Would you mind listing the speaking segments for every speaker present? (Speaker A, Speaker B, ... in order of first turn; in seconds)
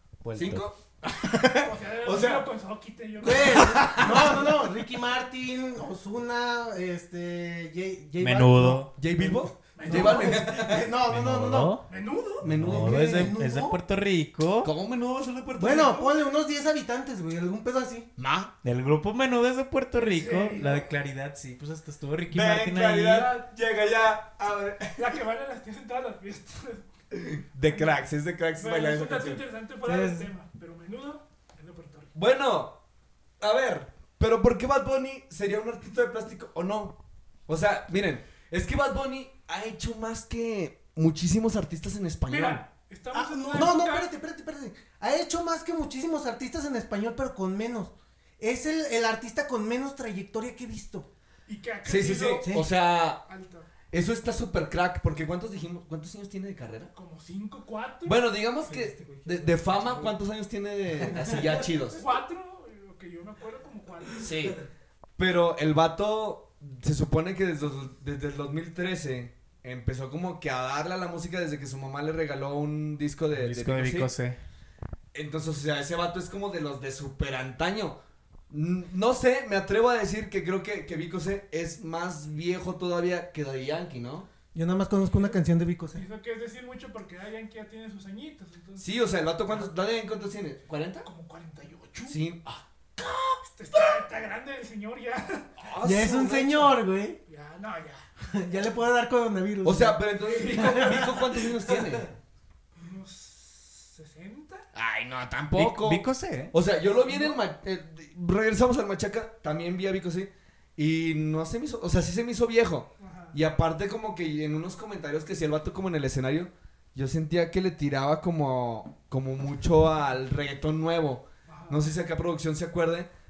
Speaker A: 0.2-0.7, 8.2-8.9, 11.1-11.8, 12.5-14.7, 18.6-23.3, 73.3-74.4, 105.5-106.5
Speaker B: 0.3-2.5, 3.6-4.5, 9.0-10.9, 12.4-13.3, 14.6-16.1, 18.2-18.5, 22.3-25.2, 27.1-29.4, 32.1-32.8, 33.4-37.0, 37.5-42.6, 51.9-53.2, 53.9-56.9, 58.0-62.0, 64.2-64.6, 65.2-74.1, 75.1-78.0, 78.5-84.3, 88.8-91.1, 92.1-94.0, 95.6-96.8, 99.6-102.1, 104.7-123.1
Speaker C: 1.6-3.9, 9.8-10.5, 11.9-12.5, 20.0-20.9, 25.0-26.9, 27.7-28.0, 28.6-32.1, 42.3-44.1, 51.5-52.5, 53.2-53.7, 56.9-58.2, 62.0-64.3, 85.1-85.4, 86.0-88.9, 91.0-92.2, 93.4-95.5, 97.3-98.0, 100.2-101.0, 102.8-104.7, 107.0-107.4, 113.0-113.3, 121.5-121.8
Speaker D: 3.2-11.8, 12.5-13.8, 15.6-18.1, 29.9-30.3, 43.1-51.1, 58.7-60.1, 61.0-61.6, 84.5-86.0, 95.8-97.2, 98.3-101.8